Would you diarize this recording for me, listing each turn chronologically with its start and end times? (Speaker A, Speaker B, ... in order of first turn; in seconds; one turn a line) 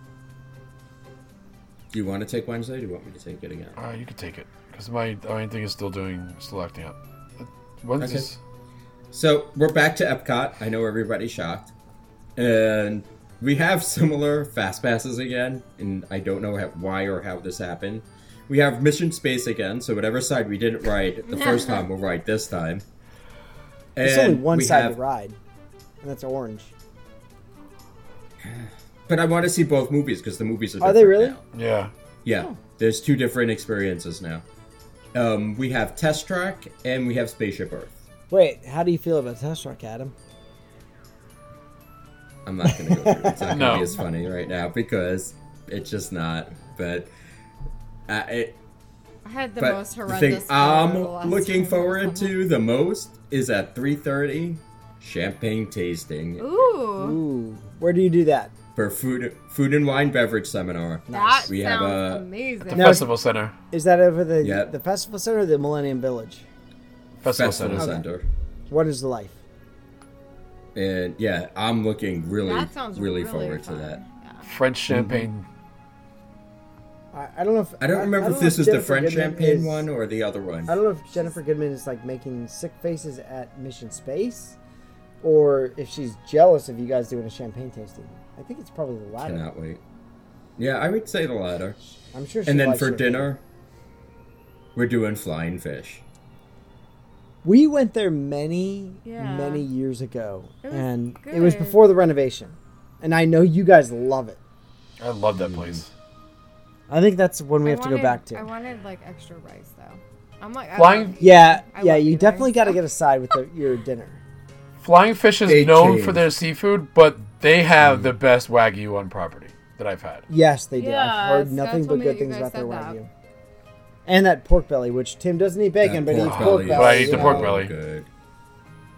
Speaker A: 1.9-3.8
Speaker B: 3.8-8.4
Speaker A: 8.0-8.3
Speaker A: 9.1-11.7
Speaker A: 12.3-22.8
Speaker C: 21.3-21.8
Speaker A: 23.9-25.0
Speaker D: 24.0-25.4
Speaker D: 26.0-26.7
Speaker A: 28.4-31.4
Speaker D: 30.8-31.4
Speaker B: 31.5-31.9
Speaker A: 32.2-34.4
Speaker A: 35.1-38.0
Speaker D: 38.3-40.1
Speaker A: 42.5-47.1
Speaker D: 42.8-43.8
Speaker B: 43.5-43.9
Speaker A: 48.1-48.6
Speaker C: 49.2-52.3
Speaker A: 49.6-56.7
Speaker C: 56.4-57.2
Speaker D: 57.0-58.5
Speaker A: 58.7-62.2
Speaker D: 61.1-61.5
Speaker C: 61.1-63.1
Speaker B: 62.6-63.5
Speaker D: 62.7-63.1
Speaker D: 63.7-66.4
Speaker A: 64.4-64.7
Speaker B: 67.2-68.0
Speaker A: 67.2-68.2
Speaker D: 67.7-68.0
Speaker D: 68.7-69.4
Speaker A: 70.7-74.0
Speaker C: 72.4-74.5
Speaker B: 74.4-75.5
Speaker A: 74.9-75.3
Speaker D: 77.1-79.9
Speaker A: 77.8-80.7
Speaker D: 80.7-84.6
Speaker D: 85.2-89.5
Speaker A: 89.2-89.8
Speaker A: 90.6-91.8
Speaker D: 92.1-93.3
Speaker A: 92.5-93.4
Speaker A: 94.7-96.0
Speaker D: 97.4-104.4
Speaker C: 99.0-99.7
Speaker C: 100.6-101.8
Speaker B: 105.0-105.9
Speaker A: 105.3-105.8
Speaker D: 106.9-108.5
Speaker C: 107.6-112.8
Speaker B: 110.8-111.2
Speaker D: 111.2-114.2
Speaker B: 114.8-120.2
Speaker A: 115.5-116.3
Speaker A: 117.8-118.1
Speaker D: 120.3-123.1
Speaker C: 120.7-123.0
Speaker D: 124.0-127.6
Speaker A: 125.8-128.1
Speaker B: 126.2-127.7